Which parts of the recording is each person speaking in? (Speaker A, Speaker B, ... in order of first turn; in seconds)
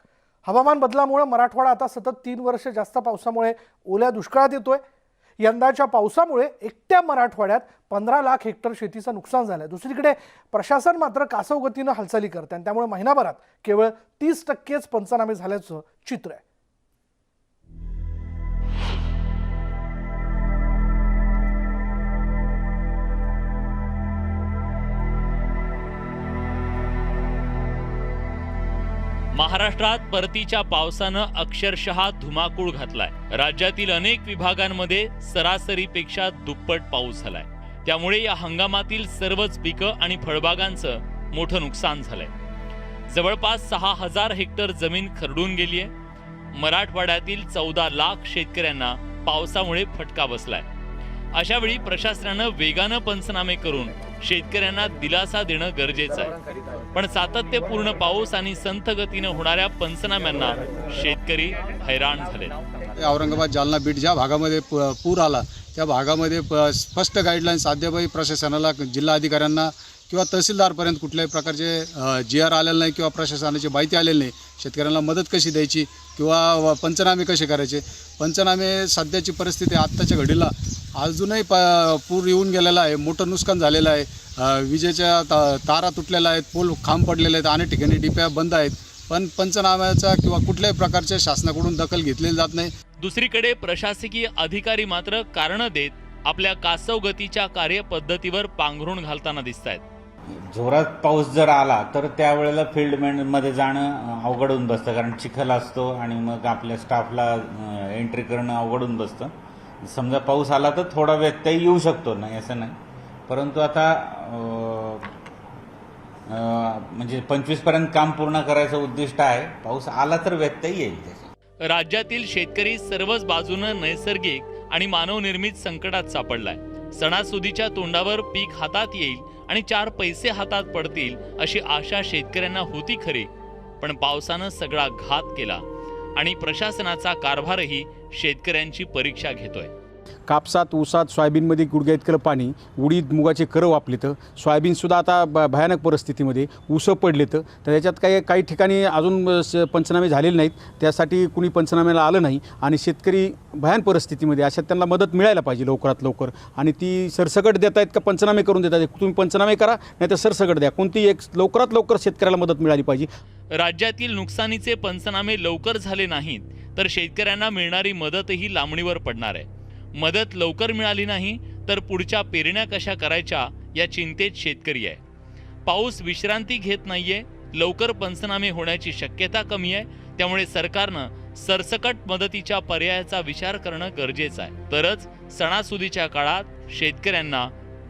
Speaker A: 0.4-4.8, 5.4-16.4
Speaker B: 29.3-42.3, 43.1-45.9, 46.5-50.7, 51.3-56.3, 56.9-62.5, 93.0-99.8, 121.7-135.6, 136.2-139.7, 163.5-169.4, 170.0-175.0, 175.7-187.5
Speaker C: 63.0-92.7
Speaker D: 100.5-109.3, 109.8-112.8, 113.3-115.1, 116.3-121.2
Speaker E: 140.3-163.1